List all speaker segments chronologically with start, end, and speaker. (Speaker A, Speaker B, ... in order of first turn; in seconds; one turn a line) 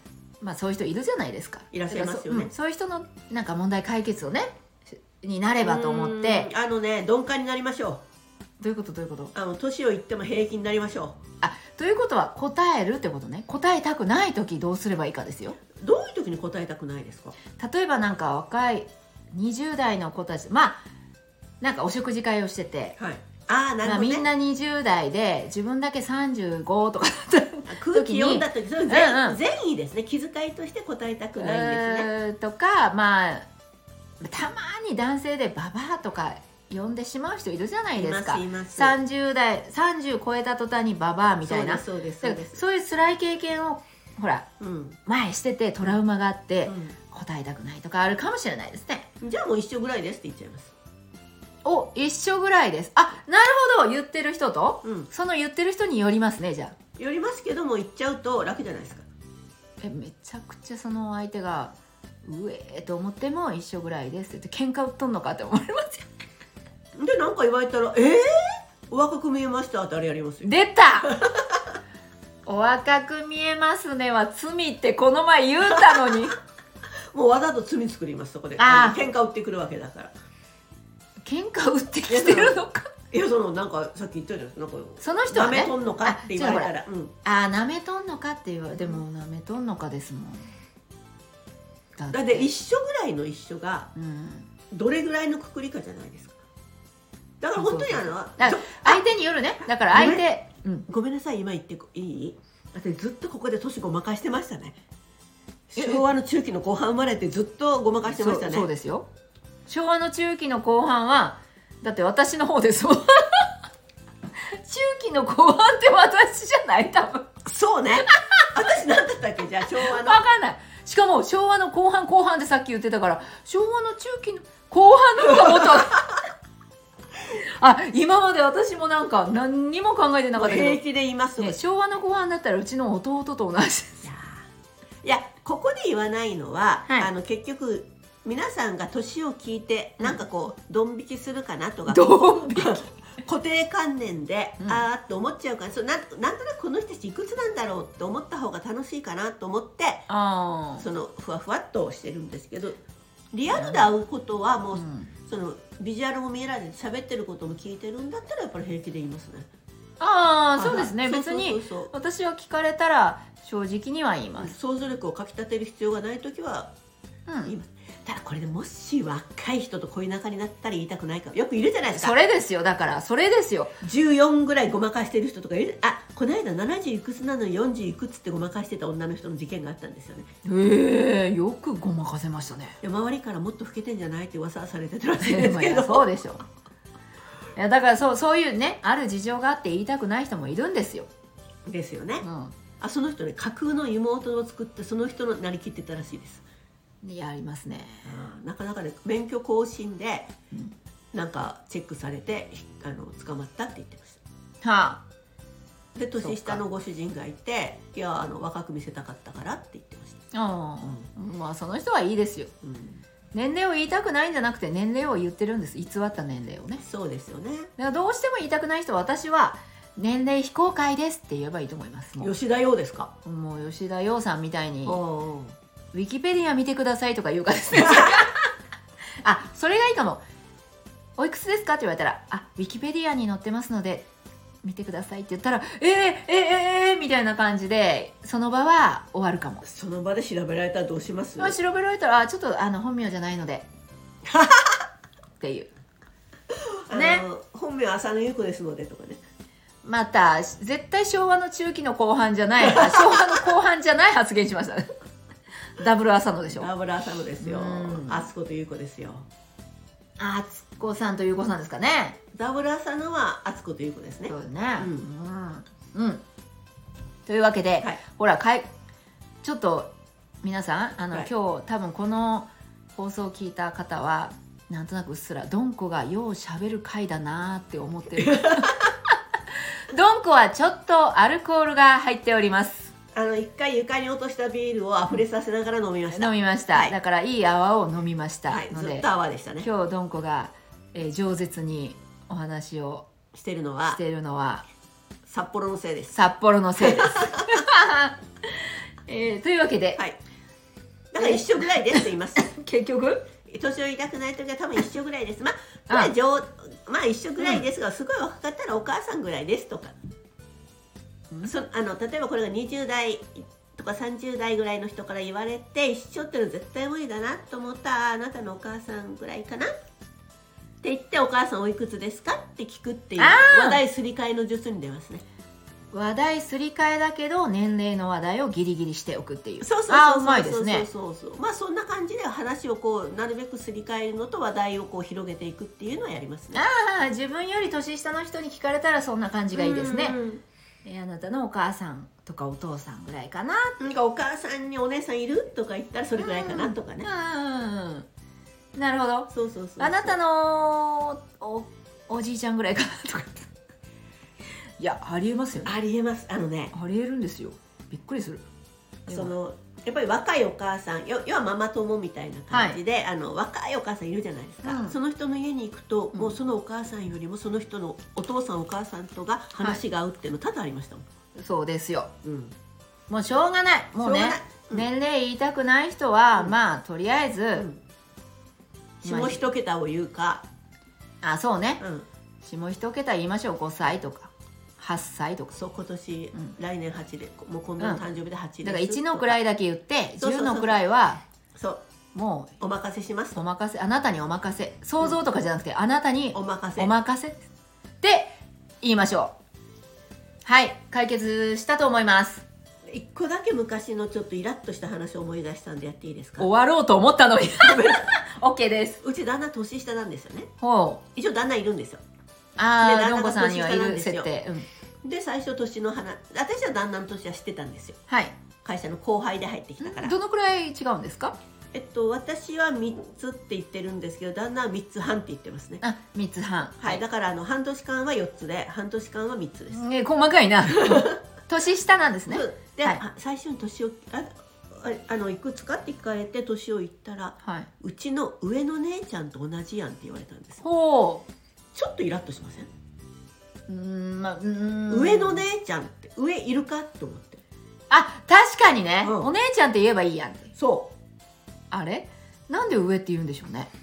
Speaker A: 0.4-6.5
Speaker B: 1.7-2.5
Speaker B: 5.6-8.0
Speaker A: 8.6-9.3
Speaker B: 9.3-11.2
Speaker A: 11.4-15.6
Speaker B: 15.8-17.3
Speaker A: 17.6-20.8
Speaker A: 21.6-22.9
Speaker B: 23.0-24.2
Speaker A: 23.8-29.4
Speaker B: 27.7-32.1
Speaker A: 31.4-33.5
Speaker A: 34.2-44.5
Speaker B: 38.0-39.0
Speaker B: 41.5-42.6
Speaker B: 44.6-45.0
Speaker A: 45.0-49.1
Speaker B: 46.6-47.0
Speaker B: 49.2-50.7
Speaker A: 51.6-56.7
Speaker B: 54.8-55.1
Speaker B: 57.0-59.0
Speaker A: 59.8-61.7
Speaker A: 62.2-66.1
Speaker B: 67.0-71.6
Speaker A: 70.4-71.1
Speaker A: 72.5-76.3
Speaker B: 75.6-76.2
Speaker B: 77.1-80.1
Speaker A: 78.6-79.0
Speaker A: 81.2-82.9
Speaker B: 82.1-82.6
Speaker B: 83.1-87.1
Speaker A: 85.0-86.7
Speaker A: 87.2-90.5
Speaker A: 92.0-92.5
Speaker B: 92.1-93.9
Speaker A: 93.9-94.5
Speaker B: 94.7-96.4
Speaker B: 97.4-99.1
Speaker A: 97.6-100.9
Speaker B: 99.7-100.3
Speaker B: 100.9-104.8
Speaker B: 105.7-108.7
Speaker A: 108.0-109.1
Speaker A: 109.7-113.5
Speaker A: 114.5-117.3
Speaker B: 117.5-120.2
Speaker A: 118.1-118.5
Speaker A: 119.8-126.1
Speaker A: 127.3-130.8
Speaker B: 130.3-131.6
Speaker A: 131.4-134.1
Speaker B: 134.0-134.4
Speaker B: 135.0-150.1
Speaker A: 141.9-142.9
Speaker A: 150.1-150.8
Speaker B: 150.8-152.8
Speaker B: 153.3-159.5
Speaker A: 153.5-153.9
Speaker A: 154.7-155.1
Speaker A: 160.0-164.5
Speaker B: 160.6-161.9
Speaker B: 164.4-166.7
Speaker A: 167.3-167.5
Speaker B: 167.4-172.2
Speaker A: 171.9-173.7
Speaker B: 173.8-180.3
Speaker A: 180.4-182.8
Speaker B: 182.8-186.1
Speaker A: 185.2-186.4
Speaker A: 187.6-191.1
Speaker B: 191.7-192.2
Speaker A: 192.2-192.5
Speaker B: 192.8-196.4
Speaker A: 197.0-198.2
Speaker B: 198.0-200.3
Speaker B: 201.1-204.2
Speaker A: 204.6-205.0
Speaker B: 205.9-210.2
Speaker A: 206.2-206.6
Speaker A: 210.3-212.5
Speaker B: 212.6-213.0
Speaker A: 213.3-216.8
Speaker B: 216.8-217.7
Speaker A: 217.8-222.3
Speaker B: 222.2-223.1
Speaker A: 223.2-225.0
Speaker B: 224.8-225.5
Speaker A: 225.9-228.5
Speaker B: 227.8-228.2
Speaker A: 229.2-230.2
Speaker A: 231.2-234.1
Speaker A: 234.6-239.7
Speaker B: 239.6-241.6
Speaker A: 241.4-243.7
Speaker B: 244.3-244.7
Speaker A: 245.4-245.7
Speaker B: 246.8-249.2
Speaker A: 246.9-247.2
Speaker A: 249.8-254.9
Speaker B: 252.6-253.4
Speaker A: 255.8-256.7
Speaker B: 256.5-259.3
Speaker A: 257.4-258.3
Speaker A: 260.2-262.2
Speaker B: 262.3-265.1
Speaker A: 264.3-266.2
Speaker A: 267.2-268.7
Speaker A: 269.4-278.9
Speaker B: 278.4-278.6
Speaker A: 279.9-282.9
Speaker B: 283.1-286.9
Speaker A: 286.1-289.1
Speaker B: 288.5-289.7
Speaker A: 289.6-293.1
Speaker B: 293.3-294.0
Speaker A: 293.9-294.6
Speaker B: 295.2-296.2
Speaker A: 296.1-300.0
Speaker B: 296.8-297.6
Speaker B: 301.1-302.5
Speaker A: 301.2-303.2
Speaker B: 303.5-309.9
Speaker A: 311.3-311.6
Speaker B: 311.4-319.7
Speaker B: 320.8-325.2
Speaker A: 323.2-323.8
Speaker A: 325.9-330.9
Speaker B: 329.6-336.6
Speaker A: 336.5-340.2
Speaker B: 339.5-340.4
Speaker A: 340.8-343.8
Speaker B: 343.8-347.1
Speaker A: 346.2-348.1
Speaker A: 348.7-353.5
Speaker B: 349.3-350.2
Speaker A: 354.8-355.7
Speaker B: 355.6-356.7
Speaker A: 356.7-358.4
Speaker A: 359.1-359.3
Speaker B: 359.1-371.0
Speaker A: 362.5-362.8
Speaker A: 364.6-364.9
Speaker A: 371.4-372.1
Speaker B: 372.2-372.5
Speaker A: 373.1-377.6
Speaker B: 374.0-374.9
Speaker B: 377.5-377.8
Speaker B: 379.0-380.4
Speaker A: 379.0-379.4
Speaker A: 381.2-381.8
Speaker B: 381.8-382.1
Speaker A: 382.4-385.6
Speaker B: 385.5-389.4
Speaker A: 388.6-391.2
Speaker B: 390.2-390.8
Speaker B: 391.6-391.8
Speaker A: 392.1-392.5
Speaker B: 392.6-393.4
Speaker A: 393.3-397.4
Speaker B: 396.3-396.9
Speaker A: 398.0-399.3
Speaker A: 400.4-402.4
Speaker B: 402.9-406.5
Speaker A: 406.4-409.0
Speaker B: 407.6-408.1
Speaker B: 409.0-410.5
Speaker A: 410.6-411.0
Speaker B: 411.1-412.0
Speaker A: 412.6-414.6
Speaker B: 412.8-414.3
Speaker B: 415.0-418.0
Speaker A: 418.1-418.3
Speaker B: 418.6-420.1
Speaker A: 419.8-421.4
Speaker B: 421.7-425.8
Speaker A: 425.8-427.0
Speaker B: 426.8-429.8
Speaker A: 429.7-433.0
Speaker B: 432.3-440.6
Speaker A: 437.4-437.7
Speaker A: 440.6-441.2
Speaker B: 441.7-442.7
Speaker A: 443.7-445.4
Speaker B: 444.9-447.4
Speaker A: 447.9-450.5
Speaker B: 449.0-449.3
Speaker B: 450.5-450.9
Speaker A: 451.7-453.7